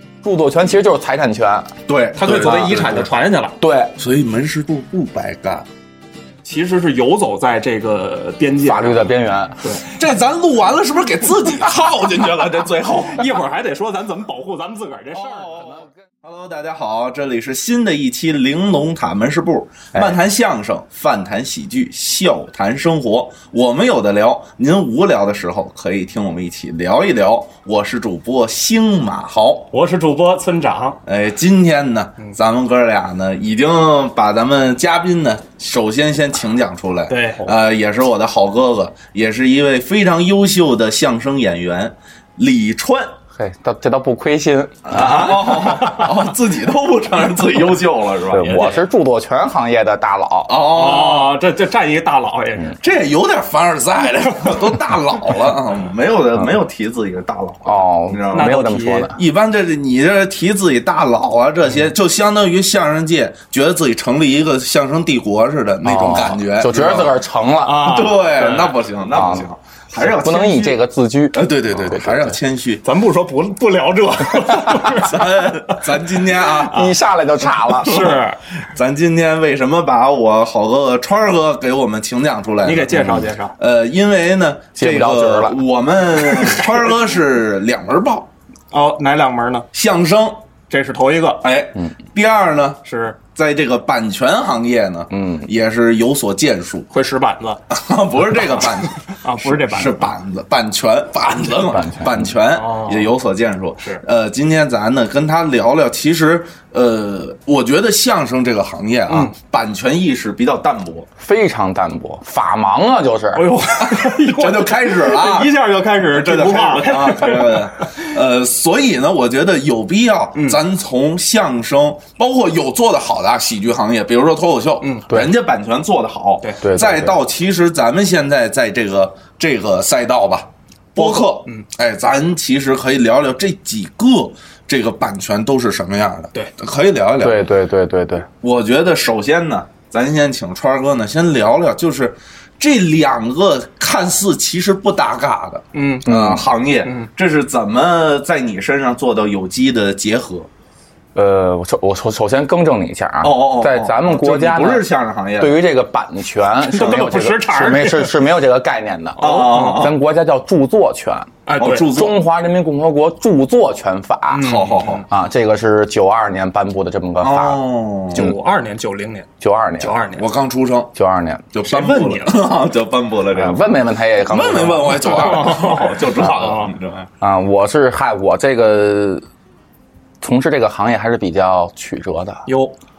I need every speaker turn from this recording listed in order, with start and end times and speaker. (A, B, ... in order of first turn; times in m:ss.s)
0:00.2-0:01.7 A
0:01.9-0:03.1 B
0:02.2-0:03.6 C
0:03.6-0:03.9 A
0:04.0-0:05.6 B
0:06.4-0:09.1 C
0:08.6-0:09.6 A
0:09.6-0:09.8 C
0:09.9-0:13.3 B
0:13.0-0:15.6 C
0:15.1-0:29.7 B
0:29.7-0:31.0 C
0:31.0-0:43.1 B
0:37.1-0:37.5 C
0:43.3-0:45.9 A
0:44.9-0:48.6 B
0:48.3-0:50.6 A
0:48.4-0:48.8 C
0:50.5-0:51.3 B
0:50.6-0:52.8 C
0:52.8-0:58.6 B
0:57.6-0:59.2 A
0:58.3-0:59.1 C
0:59.1-1:07.1 B
1:05.8-1:07.9 A
1:07.6-1:08.9 C
1:07.8-1:10.8 B
1:09.1-1:12.4 A
1:11.3-1:12.8 B
1:12.8-1:15.8 C
1:14.9-1:16.9 B
1:16.6-1:18.2 A
1:16.7-1:17.0 C
1:17.7-1:18.4 C
1:17.9-1:28.3 B
1:22.6-1:23.6 C
1:24.8-1:25.6 A
1:28.7-1:29.7 C
1:29.7-1:30.4 B
1:30.7-1:31.4 C
1:31.4-1:32.8 B
1:32.8-1:33.2 C
1:33.3-1:36.9 B
1:35.1-1:35.5 A
1:36.9-1:37.6 C
1:37.7-1:51.1 B
1:39.1-1:40.1 C
1:41.7-1:42.2 A
1:42.5-1:43.1 C
1:51.2-1:53.5 A
1:53.3-1:57.9 C
1:53.8-2:17.4 B
2:00.3-2:00.6 C
2:06.6-2:07.2 A
2:11.0-2:11.6 C
2:17.2-2:18.3 A
2:18.4-2:30.5 B
2:25.7-2:26.1 C
2:26.1-2:26.4 A
2:26.8-2:27.1 C
2:31.2-2:41.3 A
2:33.2-2:35.6 B
2:36.7-2:38.2 C
2:39.2-2:39.9 C
2:39.2-2:40.0 B
2:41.5-2:41.9 C
2:41.6-2:42.2 B
2:41.8-2:48.4 A
2:44.3-2:45.0 C
2:44.4-2:45.0 B
2:47.2-2:48.3 B
2:48.1-2:49.3 C
2:49.4-2:50.0 A
2:49.8-2:50.2 C
2:50.2-2:50.9 B
2:50.9-2:51.5 A
2:51.5-2:57.1 B
2:51.6-2:52.5 C
2:53.3-2:55.2 A
2:55.0-2:56.7 C
2:57.2-2:59.2 A
3:00.2-3:02.4 A
3:02.5-3:02.7 C